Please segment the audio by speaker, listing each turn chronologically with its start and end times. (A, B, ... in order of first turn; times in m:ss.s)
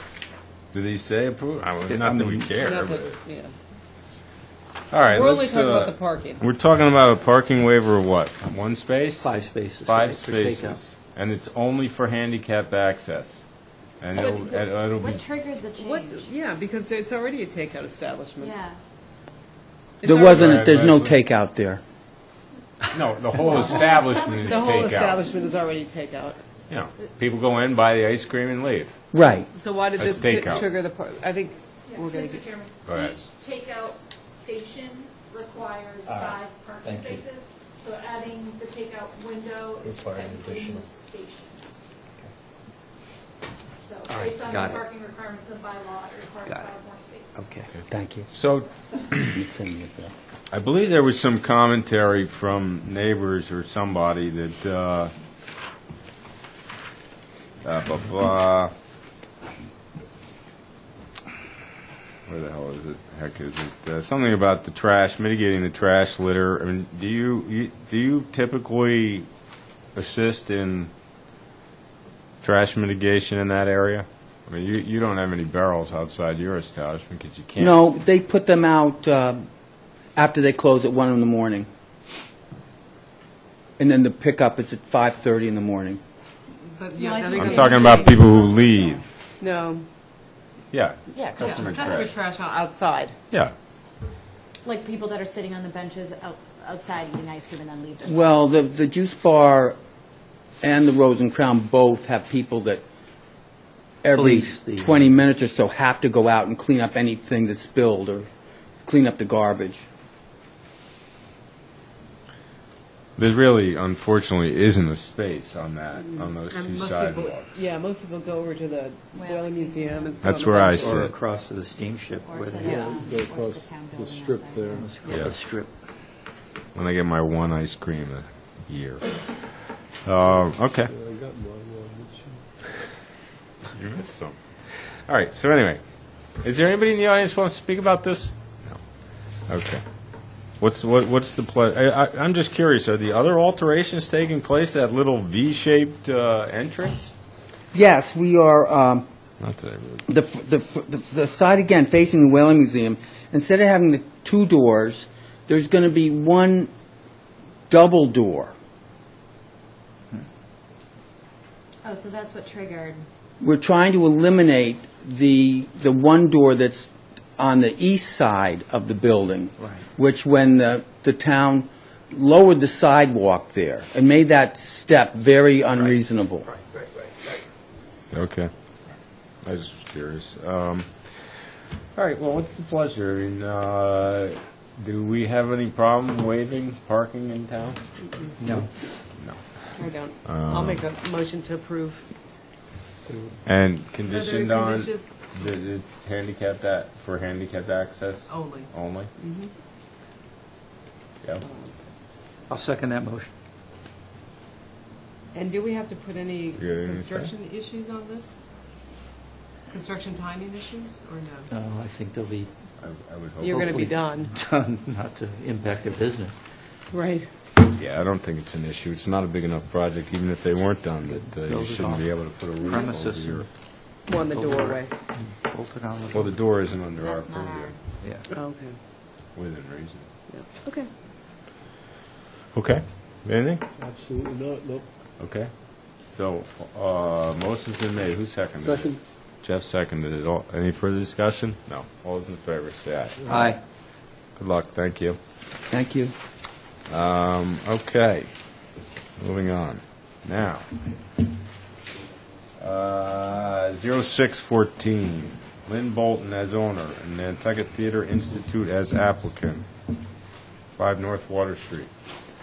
0:00.7-0:03.2 A
0:01.8-0:02.5 B
0:02.6-0:03.5 C
0:04.9-0:13.4 A
0:05.0-0:06.4 C
0:09.2-0:10.8 B
0:14.0-0:15.2 A
0:15.0-0:16.3 D
0:15.8-0:18.6 C
0:18.4-0:18.8 D
0:20.0-0:20.5 C
0:20.0-0:21.8 E
0:20.3-0:21.2 A
0:22.9-0:25.2 A
0:23.5-0:26.4 C
0:26.7-0:29.0 A
0:29.1-0:29.5 E
0:29.5-0:32.5 C
0:30.0-0:30.6 A
0:31.9-0:41.6 F
0:32.8-0:33.2 A
0:36.0-0:37.2 B
0:39.8-0:40.8 B
0:43.8-0:47.2 F
0:44.1-0:44.9 B
0:46.4-0:46.8 B
0:47.3-0:47.7 B
0:47.7-0:49.4 A
0:47.9-0:48.3 E
0:49.3-0:50.1 E
0:50.5-0:55.1 A
0:57.6-0:58.7 A
1:02.3-1:09.3 A
1:09.9-1:10.9 A
1:12.4-1:17.8 A
1:17.6-1:19.5 E
1:20.2-1:21.7 E
1:23.8-1:26.0 E
1:26.8-1:28.2 C
1:26.9-1:28.9 D
1:27.3-1:29.0 A
1:29.4-1:29.8 C
1:30.7-1:32.1 A
1:31.1-1:32.0 D
1:31.4-1:33.2 C
1:34.6-1:38.3 D
1:38.0-1:39.8 E
1:40.6-1:42.8 E
1:44.0-1:48.3 E
1:44.1-1:45.1 B
1:48.8-1:49.8 E
1:53.2-1:57.5 A
1:56.1-2:01.0 C
1:59.1-2:00.7 D
2:00.2-2:01.1 A
2:00.7-2:02.8 B
2:02.2-2:05.0 D
2:02.6-2:04.8 G
2:04.7-2:05.7 B
2:05.1-2:05.4 A
2:06.7-2:10.9 A
2:10.2-2:12.4 G
2:13.7-2:15.8 A
2:16.3-2:18.8 A
2:19.5-2:19.8 A
2:20.6-2:27.1 A
2:27.7-2:29.0 E
2:29.4-2:30.1 A
2:30.1-2:36.7 E
2:37.7-2:38.5 E
2:41.8-2:43.0 D
2:43.4-2:56.5 E
2:49.6-2:49.8 B
2:55.8-2:57.4 B
2:58.1-2:58.5 A
2:59.4-3:07.8 A
3:08.0-3:08.6 C
3:08.4-3:08.7 B
3:09.0-3:10.8 A
3:09.7-3:12.0 C
3:13.1-3:13.4 B
3:13.4-3:19.1 A
3:14.0-3:15.1 C
3:18.3-3:19.5 C
3:21.4-3:21.7 C
3:22.5-3:23.3 B
3:25.3-3:28.4 C
3:26.5-3:27.3 A
3:29.7-3:31.5 C
3:31.5-3:32.5 B
3:32.8-3:33.8 A
3:33.4-3:34.3 C
3:33.4-3:36.4 B
3:36.9-3:37.3 C
3:37.6-3:43.5 A
3:41.0-3:43.5 B
3:44.0-3:44.9 C
3:44.1-3:46.3 B
3:46.1-3:47.8 A
3:47.0-3:47.8 D
3:48.0-3:48.2 B
3:48.3-3:48.8 C
3:49.3-3:50.1 A
3:50.3-3:50.9 C
3:52.5-3:53.6 A
3:53.8-3:54.9 G
3:55.2-4:03.2 A
3:58.6-3:59.0 G
4:03.2-4:03.6 B
4:04.4-4:05.2 A
4:05.7-4:06.1 E
4:06.9-4:08.3 A
4:09.2-4:10.6 A
4:12.6-4:19.6 A
4:20.8-4:21.9 A